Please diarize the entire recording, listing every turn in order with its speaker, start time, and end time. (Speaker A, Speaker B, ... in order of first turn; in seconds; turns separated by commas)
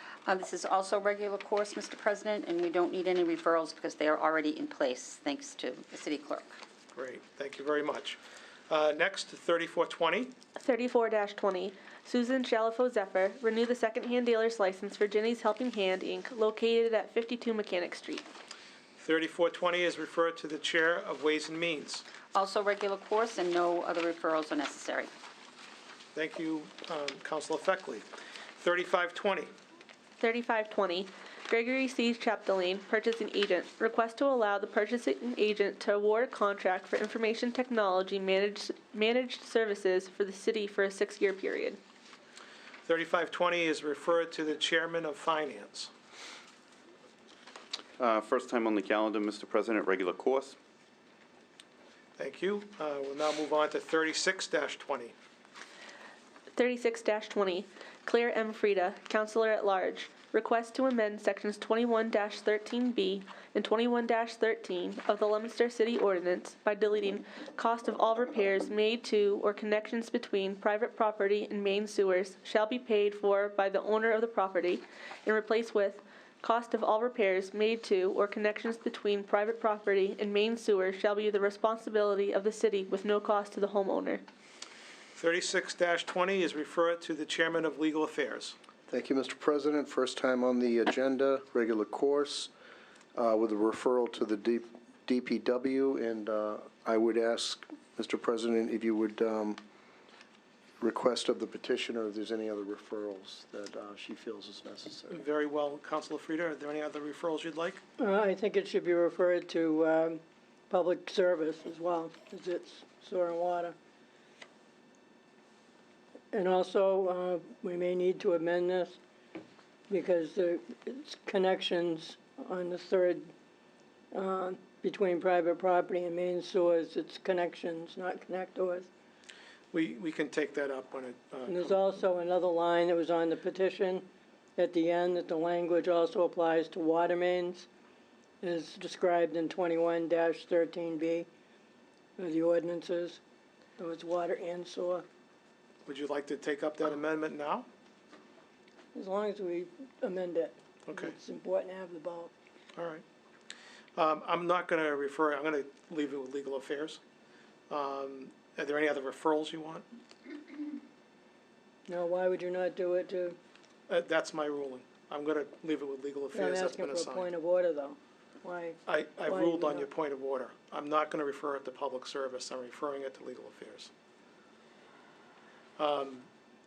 Speaker A: 0.2-6.6, Speaker B: 6.9-10.3, Speaker C: 10.6-18.3, Speaker B: 19.0-22.0, Speaker A: 22.3-25.1, Speaker B: 26.1-28.1, Speaker B: 28.6-29.5, Speaker C: 30.2-41.8, Speaker B: 42.9-45.9, Speaker D: 48.0-50.6, Speaker B: 52.2-55.1, Speaker C: 56.5-84.2, Speaker B: 85.1-88.5, Speaker E: 88.9-92.5, Speaker E: 93.1-99.6, Speaker E: 100.8-105.2, Speaker B: 105.1-107.8, Speaker F: 108.0-113.8, Speaker F: 116.3-119.0, Speaker F: 119.9-123.3, Speaker F: 124.1-128.9, Speaker B: 129.7-131.8, Speaker F: 131.4-137.7, Speaker F: 138.4-141.3, Speaker F: 142.2-143.2, Speaker F: 143.8-145.0, Speaker B: 145.8-147.7, Speaker F: 148.9-152.3, Speaker B: 152.8-153.0, Speaker B: 153.9-157.0, Speaker B: 157.7-159.8, Speaker F: 161.9-163.4, Speaker B: 163.9-167.3, Speaker F: 166.3-169.9, Speaker B: 168.8-173.9, Speaker B: 175.8-176.3